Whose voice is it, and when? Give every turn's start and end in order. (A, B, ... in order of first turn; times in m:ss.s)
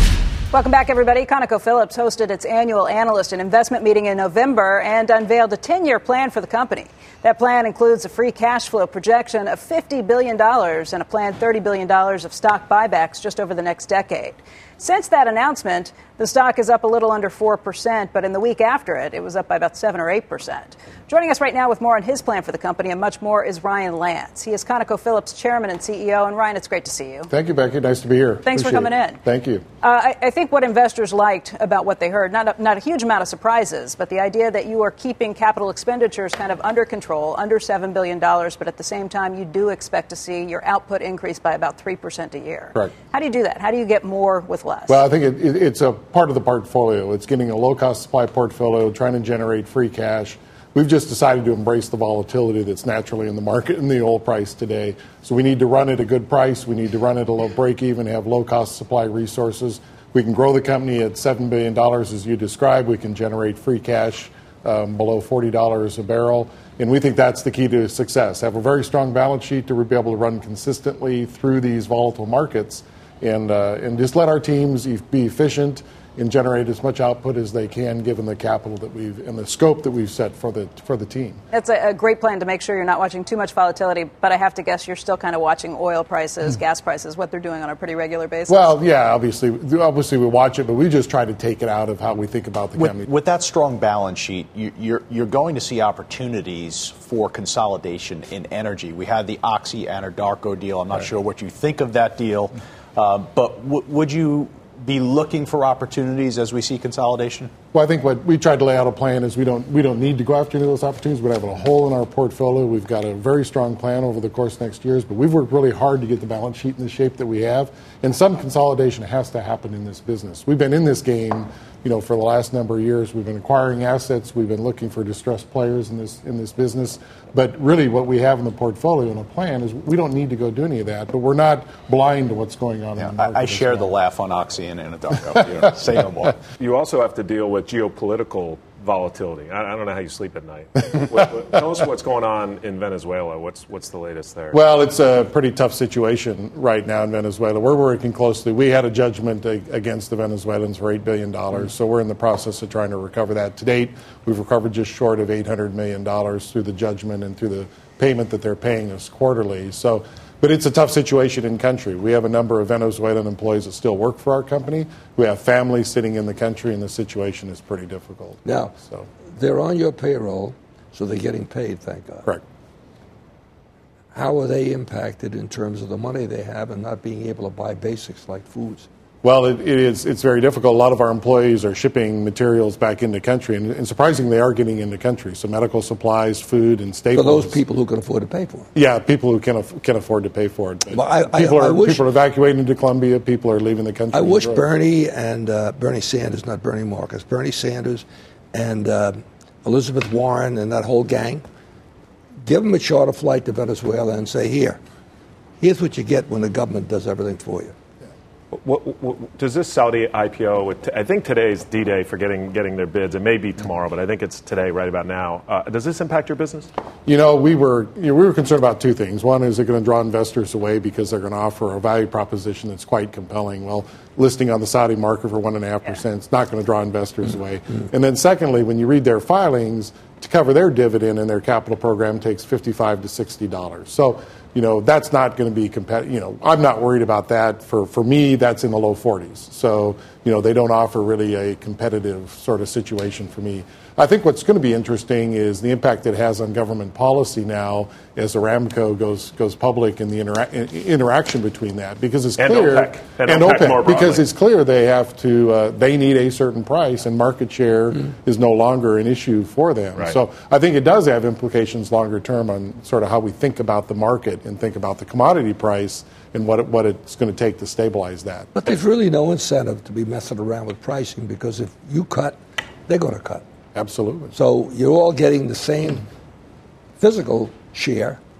0:00.5-0:27.3 A
0:27.3-0:29.6 B
0:28.4-0:29.2 A
0:29.8-0:45.0 A
0:44.9-1:21.4 B
1:21.5-1:28.8 A
1:28.5-1:33.1 B
1:32.8-1:47.5 C
1:47.7-2:14.0 B
2:13.0-2:16.4 C
2:16.6-2:24.6 D
2:24.5-2:49.1 B
2:48.4-2:48.7 E
2:49.3-2:52.2 E
2:54.1-2:58.9 E
2:59.2-3:07.6 B
3:07.1-3:08.7 E
3:08.7-3:14.7 B
3:10.9-3:12.0 E
3:14.1-3:21.4 E
3:22.4-3:24.8 E
3:25.6-3:27.8 E
3:28.5-3:36.7 D
3:37.0-4:28.5 B
4:12.4-4:14.2 D
4:28.6-4:32.4 E
4:32.9-4:33.4 E
4:33.7-4:34.3 B
4:34.3-4:36.1 E
4:37.0-4:38.2 E